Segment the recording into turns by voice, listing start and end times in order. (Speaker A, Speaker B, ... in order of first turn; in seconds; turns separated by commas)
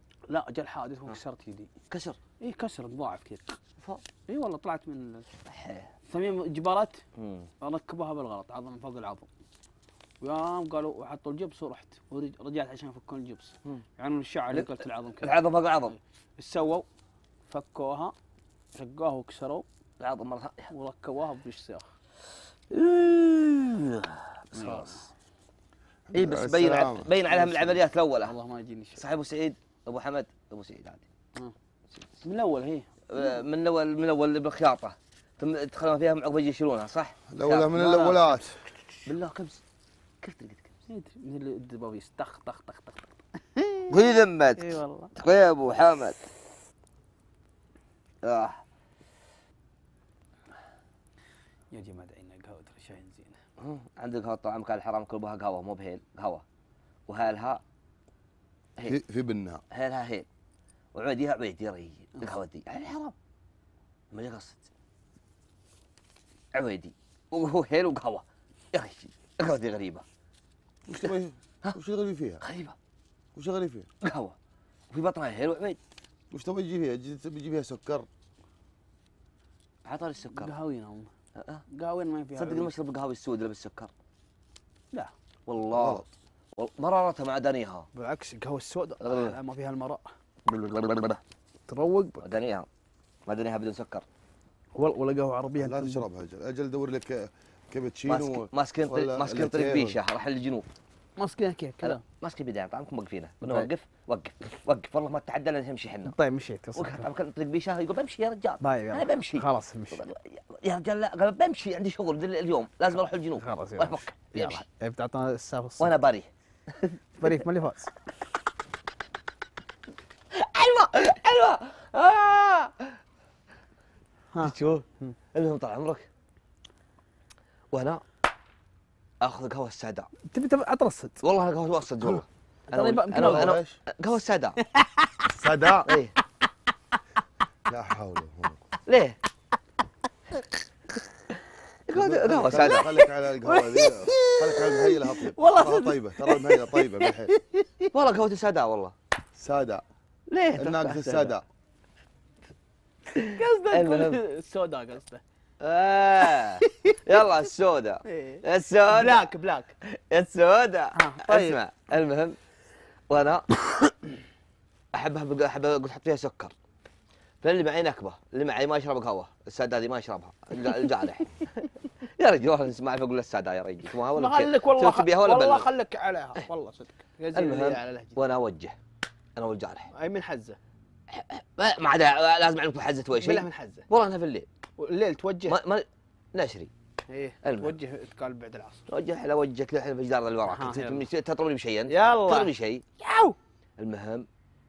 Speaker A: 0.3-1.7, Speaker B: 1.9-2.2, Speaker A: 2.4-3.6, Speaker A: 4.2-5.2, Speaker B: 5.5-5.9, Speaker A: 6.0-7.0, Speaker B: 7.2-7.5, Speaker A: 7.6-9.3, Speaker A: 10.2-16.9, Speaker B: 14.5-15.9, Speaker A: 17.5-18.1, Speaker A: 18.7-19.6, Speaker B: 20.0-20.7, Speaker A: 20.7-21.9, Speaker B: 22.7-24.6, Speaker A: 24.5-25.1, Speaker C: 26.1-27.1, Speaker B: 26.1-28.3, Speaker A: 28.2-29.0, Speaker B: 28.9-31.1, Speaker A: 32.2-32.9, Speaker B: 33.1-37.9, Speaker C: 37.3-38.6, Speaker A: 37.7-38.4, Speaker B: 39.0-39.6, Speaker B: 40.2-40.7, Speaker A: 40.9-43.9, Speaker B: 43.9-46.2, Speaker A: 44.6-45.1, Speaker B: 48.2-48.6, Speaker A: 51.7-53.4, Speaker B: 53.6-56.4, Speaker B: 57.1-57.6, Speaker C: 58.8-59.6, Speaker B: 59.7-60.3, Speaker B: 60.9-62.9, Speaker A: 62.8-63.1, Speaker B: 64.1-64.6, Speaker B: 66.5-70.0, Speaker C: 70.9-72.4, Speaker B: 72.4-72.8, Speaker C: 73.3-73.9, Speaker B: 74.0-74.3, Speaker B: 74.9-75.8, Speaker C: 76.3-78.1, Speaker B: 79.8-80.5, Speaker A: 80.3-81.1, Speaker B: 81.3-81.6, Speaker A: 81.7-82.7, Speaker B: 82.3-83.9, Speaker B: 85.5-87.9, Speaker C: 85.7-86.0, Speaker A: 87.9-90.1, Speaker B: 89.0-89.4, Speaker B: 90.5-91.2, Speaker A: 91.7-92.2, Speaker B: 92.2-92.7, Speaker B: 93.3-94.0, Speaker A: 94.7-96.0, Speaker C: 95.6-100.0, Speaker B: 98.0-100.7, Speaker A: 101.2-102.0, Speaker B: 101.8-106.2, Speaker A: 106.0-107.1, Speaker B: 106.7-114.6, Speaker A: 108.6-110.0, Speaker A: 113.3-115.9, Speaker B: 115.8-116.3, Speaker A: 116.8-118.0, Speaker B: 120.3-123.0, Speaker A: 124.3-125.1, Speaker B: 124.4-126.0, Speaker B: 127.7-128.0, Speaker B: 129.2-130.1, Speaker A: 130.2-131.2, Speaker B: 131.2-134.6, Speaker A: 132.7-133.6, Speaker C: 133.1-133.8, Speaker A: 134.7-135.3, Speaker C: 135.4-135.9, Speaker B: 135.8-136.1, Speaker C: 137.7-138.6, Speaker B: 138.8-139.2, Speaker B: 141.9-142.9, Speaker C: 141.9-147.3, Speaker A: 142.6-147.8, Speaker B: 147.9-148.9, Speaker C: 149.3-149.8, Speaker B: 150.3-151.4, Speaker C: 150.6-151.4, Speaker B: 153.1-154.2, Speaker A: 153.3-155.2, Speaker B: 155.6-159.2, Speaker A: 158.1-159.7, Speaker B: 159.8-162.4, Speaker A: 160.9-161.6, Speaker B: 163.1-163.5, Speaker B: 164.9-166.5, Speaker B: 167.4-175.7, Speaker A: 174.1-178.2, Speaker B: 177.3-178.8, Speaker B: 179.4-179.9, Speaker A: 179.9-180.6, Speaker B: 181.1-184.5, Speaker A: 183.2-183.9, Speaker A: 184.8-185.6, Speaker B: 185.5-186.7, Speaker A: 187.1-188.8, Speaker B: 187.4-187.7, Speaker B: 188.9-192.8, Speaker A: 190.4-191.1, Speaker A: 191.9-193.3, Speaker B: 193.8-194.3